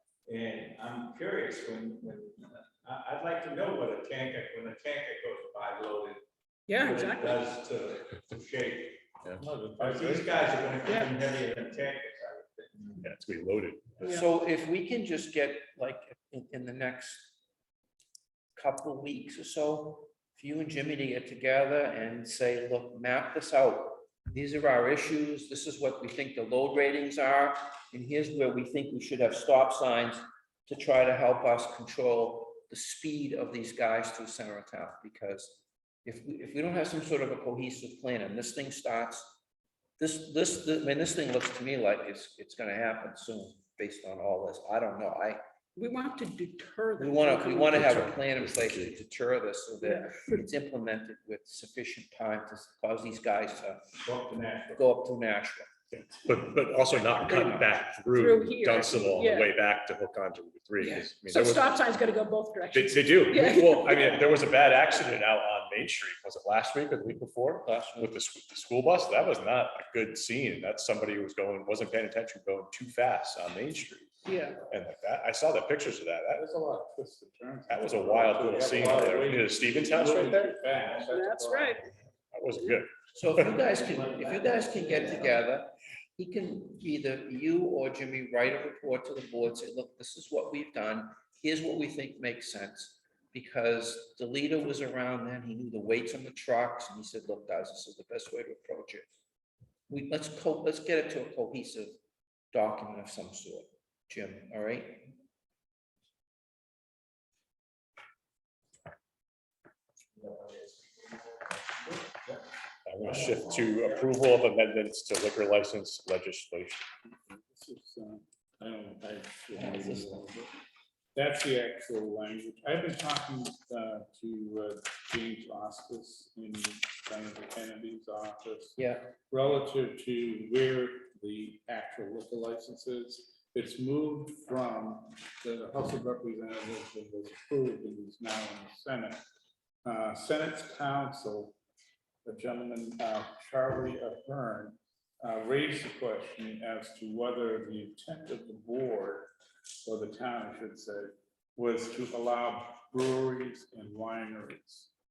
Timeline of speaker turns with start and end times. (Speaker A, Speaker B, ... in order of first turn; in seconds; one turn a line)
Speaker A: 0.2-6.2
Speaker B: 6.7-7.4
Speaker A: 6.7-9.1
Speaker C: 9.4-10.4
Speaker A: 9.8-13.0
Speaker D: 13.0-14.2
Speaker E: 14.0-17.4
Speaker E: 18.6-39.4
Speaker E: 40.0-45.4
Speaker B: 45.8-47.9
Speaker E: 47.0-54.0
Speaker D: 47.7-49.0
Speaker B: 49.8-50.4
Speaker A: 54.0-54.8
Speaker E: 54.7-55.7
Speaker D: 55.9-61.9
Speaker B: 57.3-59.5
Speaker B: 60.8-64.0
Speaker D: 62.7-76.4
Speaker A: 64.0-64.7
Speaker E: 67.6-68.1
Speaker B: 74.2-74.6
Speaker C: 76.3-81.8
Speaker D: 77.7-80.5
Speaker B: 81.0-81.8
Speaker D: 82.3-83.6
Speaker E: 83.1-99.1
Speaker E: 99.9-101.9
Speaker E: 102.5-105.1
Speaker D: 112.8-116.9
Speaker C: 117.1-120.5
Speaker E: 119.5-120.2
Speaker C: 121.1-139.2
Speaker E: 128.8-129.1
Speaker C: 139.8-141.6
Speaker C: 142.2-149.3
Speaker C: 149.8-154.9